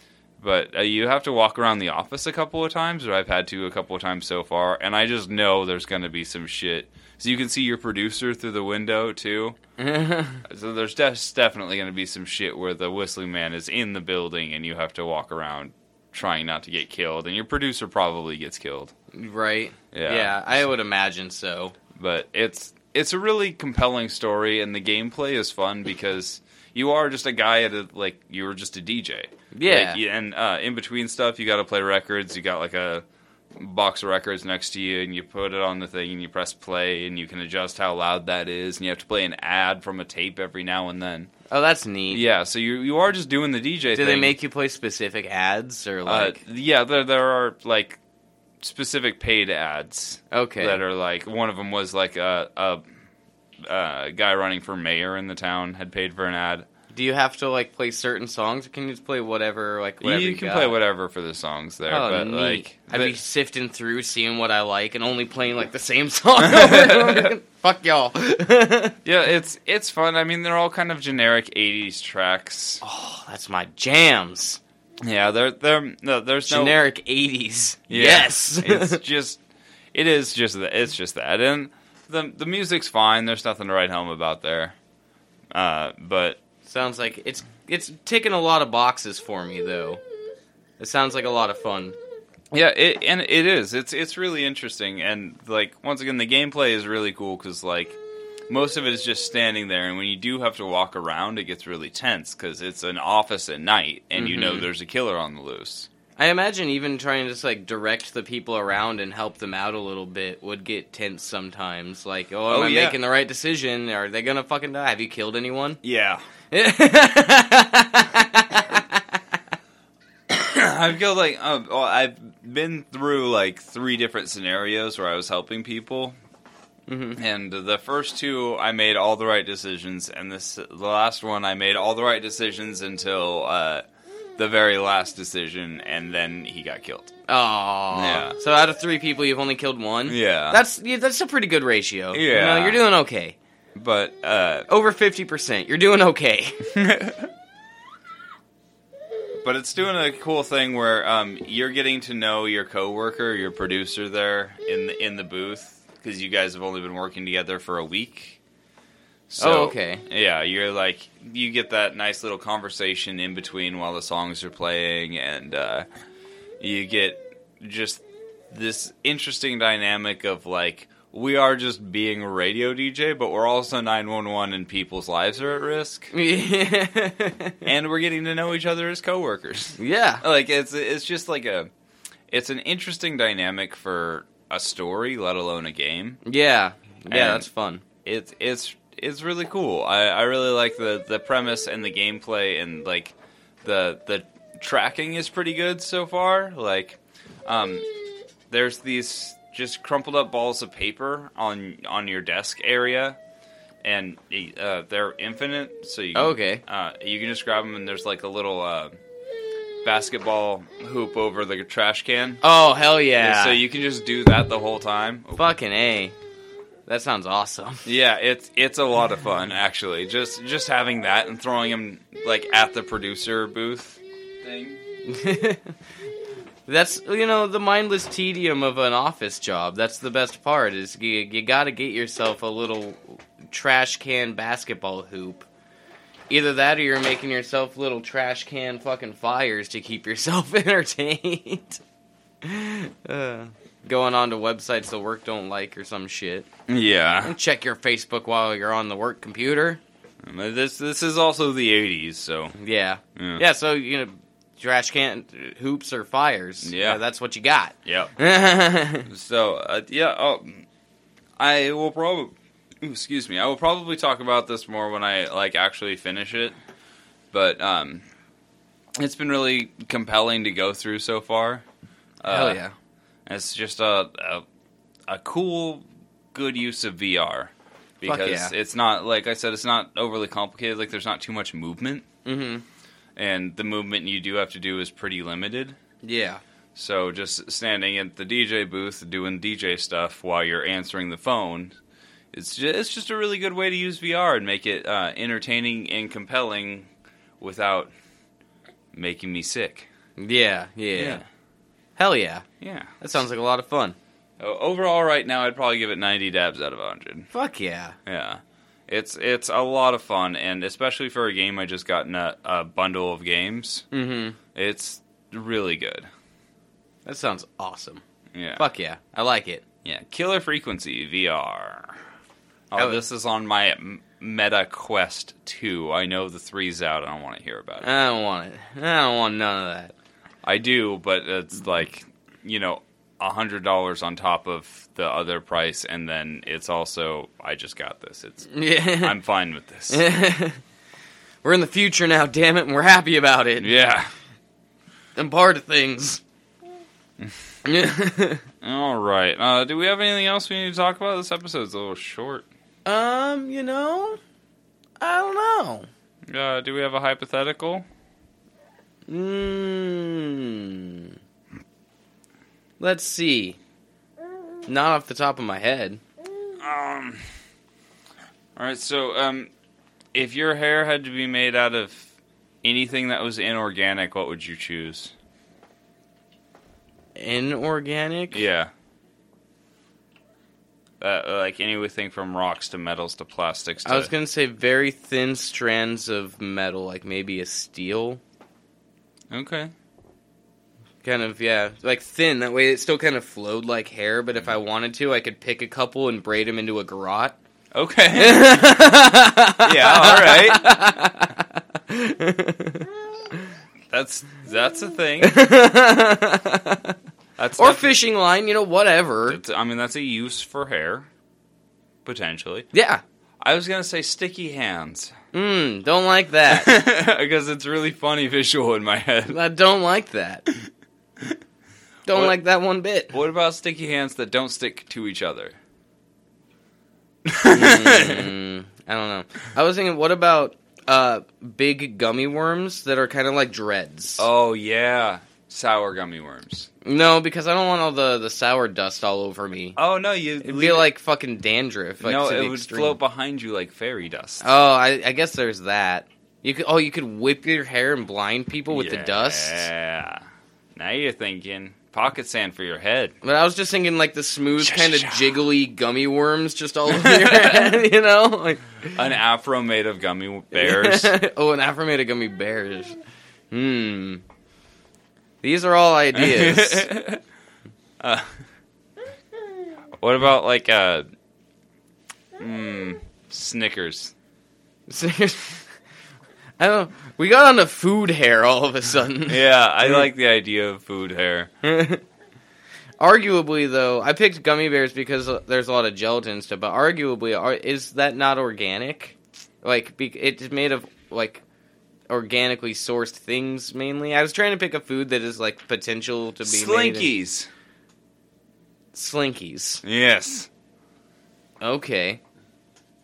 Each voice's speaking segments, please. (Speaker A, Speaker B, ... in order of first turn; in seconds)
Speaker A: 0.4-9.6, 10.4-18.9, 19.9-20.6, 21.9-41.3, 42.1-44.3, 46.0-48.0, 48.6-52.8, 53.6-56.7, 60.0-63.1, 66.4-67.3, 69.0-72.8, 75.0-76.8, 77.9-79.4, 79.9-84.8, 85.5-86.4, 92.5-98.0, 98.5-105.9, 112.5-113.0, 115.8-116.2, 120.3-126.2, 127.2-133.8, 134.4-137.1, 137.9-138.3, 140.1-140.6, 142.1-142.8, 143.7-144.7, 146.7-147.3, 149.4-158.4, 159.3-165.8, 166.6-176.1, 177.6-181.7, 182.3-186.2, 187.1-187.5, 188.0-197.8, 198.5-203.2, 203.8-208.9, 209.8-212.4, 213.2-215.5, 217.8-224.8, 246.7-247.3, 250.2-252.6, 253.2-253.4, 256.6-257.0, 257.9-258.1, 259.1-260.6, 261.4-266.6, 267.3-268.0, 269.0-271.6, 272.2-272.6, 273.2-274.4, 275.1-282.1, 283.1-285.8, 286.7-291.8, 292.3-296.9, 297.4-297.9, 298.9-299.9, 300.9-301.2, 302.6-302.9, 304.4-307.3, 308.1-313.8, 314.5-316.1, 318.3-318.6, 319.8-322.0, 322.7-327.9, 330.4-340.0, 343.6-344.1, 348.6-352.5, 356.3-357.9, 366.6-367.2, 368.6-369.5, 370.1-372.1, 372.6-375.1, 378.3-378.7, 381.0-384.1, 389.3-389.7, 397.7-398.9, 399.6-401.0, 403.9-405.4, 407.4-407.9, 409.3-411.1, 412.0-412.7, 413.4-415.1, 416.5-419.4, 423.1-425.6, 427.2-428.3, 434.2-436.7, 439.8-440.9, 442.0-444.5, 448.7-450.2, 450.7-453.1, 454.6-455.4, 456.9-457.8, 458.9-461.1, 466.1-467.2, 468.0-468.4, 470.0-471.1, 472.4-474.1, 479.3-481.5, 496.4-497.5, 499.8-500.5
Speaker B: 9.8-10.4, 19.1-21.8, 29.5-30.0, 41.5-42.2, 43.9-46.4, 50.3-50.8, 56.9-60.7, 61.9-69.0, 72.8-74.6, 76.4-79.0, 86.6-90.0, 90.8-92.0, 104.2-104.7, 106.2-115.8, 116.5-119.2, 126.9-127.2, 137.3-143.4, 144.7-146.7, 159.4-160.0, 176.1-177.6, 179.8-180.2, 186.2-187.8, 206.1-206.6, 212.4-213.6, 215.4-216.1, 216.9-217.8, 225.0-225.7, 226.7-235.5, 236.3-241.8, 242.4-246.5, 247.2-249.8, 252.6-259.1, 272.3-272.7, 278.0-278.5, 282.2-282.6, 286.0-286.4, 300.2-301.2, 302.0-302.4, 303.0-303.9, 307.3-307.9, 313.9-314.4, 317.1-318.0, 318.6-319.6, 322.8-323.0, 327.8-329.9, 338.5-339.1, 339.9-340.6, 341.4-343.7, 345.1-346.2, 347.6-348.4, 352.9-354.2, 355.0-355.9, 359.1-361.1, 362.8-363.6, 364.7-366.0, 377.1-378.4, 383.8-388.2, 391.0-397.4, 398.1-403.5, 405.2-406.9, 407.6-409.4, 412.7-413.0, 415.3-416.7, 419.3-420.5, 422.1-423.1, 427.5-434.3, 436.8-439.8, 440.4-443.0, 444.4-449.7, 453.2-459.0, 460.5-463.0, 463.5-464.2, 465.4-466.9, 474.9-475.6, 476.6-480.0, 481.6-482.0, 483.0-491.4, 492.1-497.1, 498.9-499.8, 501.6-502.2